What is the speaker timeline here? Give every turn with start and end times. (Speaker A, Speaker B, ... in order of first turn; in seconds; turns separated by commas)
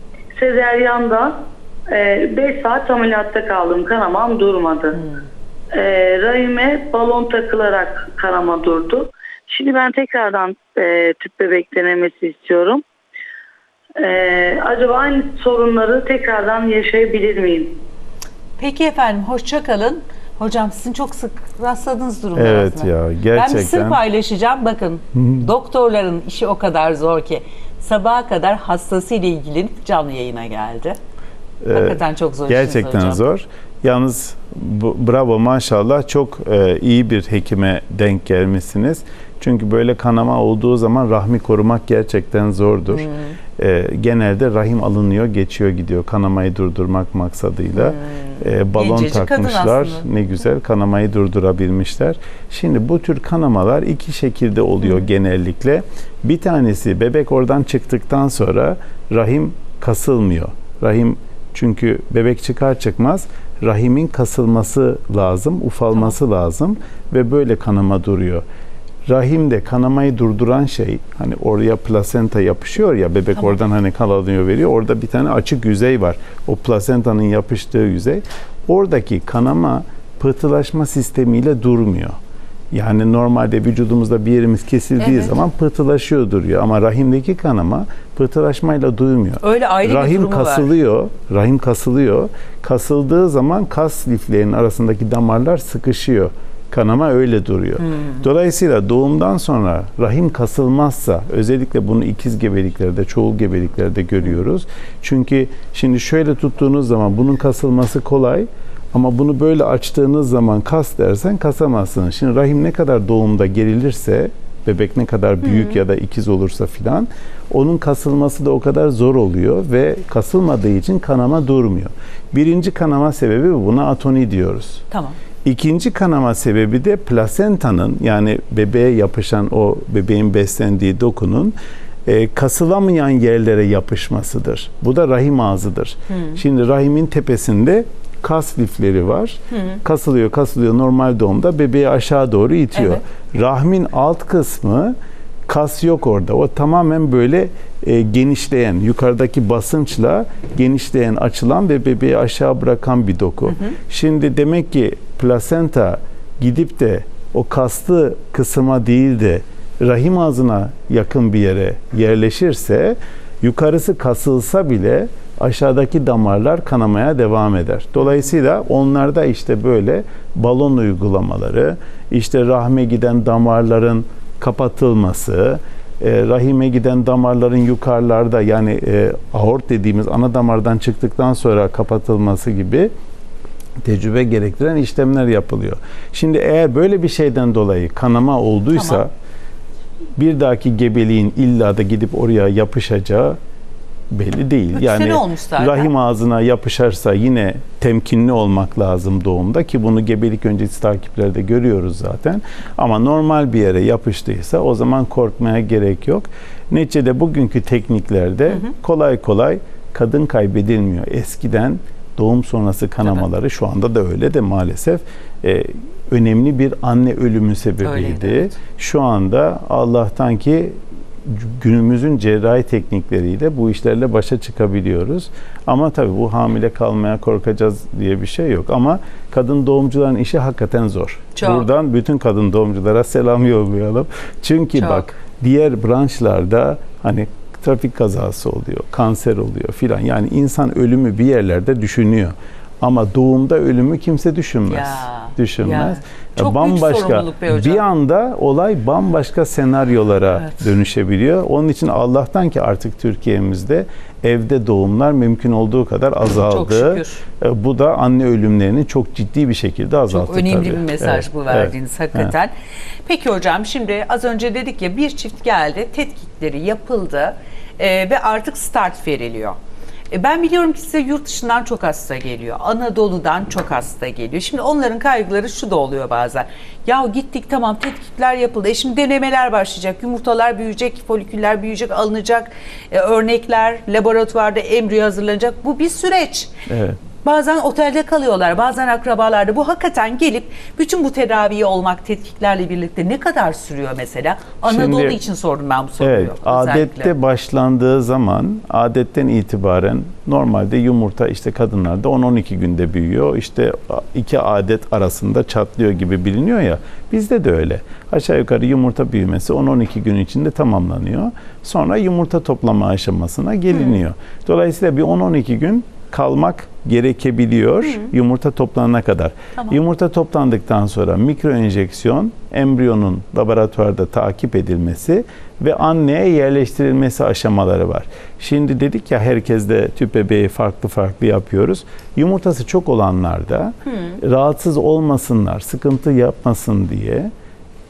Speaker A: 0.3-5.0, Speaker B: 5.0-5.3, Speaker A: 5.7-12.8, Speaker A: 14.0-17.8, Speaker B: 18.6-31.0, Speaker C: 22.4-24.0, Speaker C: 31.6-68.4, Speaker B: 31.7-33.2, Speaker B: 43.0-43.4, Speaker B: 47.8-50.0, Speaker C: 69.1-82.2, Speaker C: 82.7-124.8, Speaker B: 85.0-85.3, Speaker B: 89.4-90.7, Speaker B: 124.9-125.2, Speaker C: 125.4-145.0, Speaker B: 142.8-143.0, Speaker C: 145.5-182.9, Speaker C: 183.8-189.1, Speaker B: 188.8-189.0, Speaker C: 190.2-193.4, Speaker C: 194.1-262.3, Speaker B: 194.7-195.9, Speaker B: 217.8-218.5, Speaker B: 231.4-231.7, Speaker B: 234.8-235.1, Speaker B: 244.7-247.8, Speaker B: 256.5-257.2, Speaker B: 260.1-262.5, Speaker B: 263.1-269.6, Speaker B: 270.1-286.5, Speaker C: 286.7-287.0, Speaker B: 287.1-297.1, Speaker C: 294.6-295.2, Speaker C: 296.0-337.3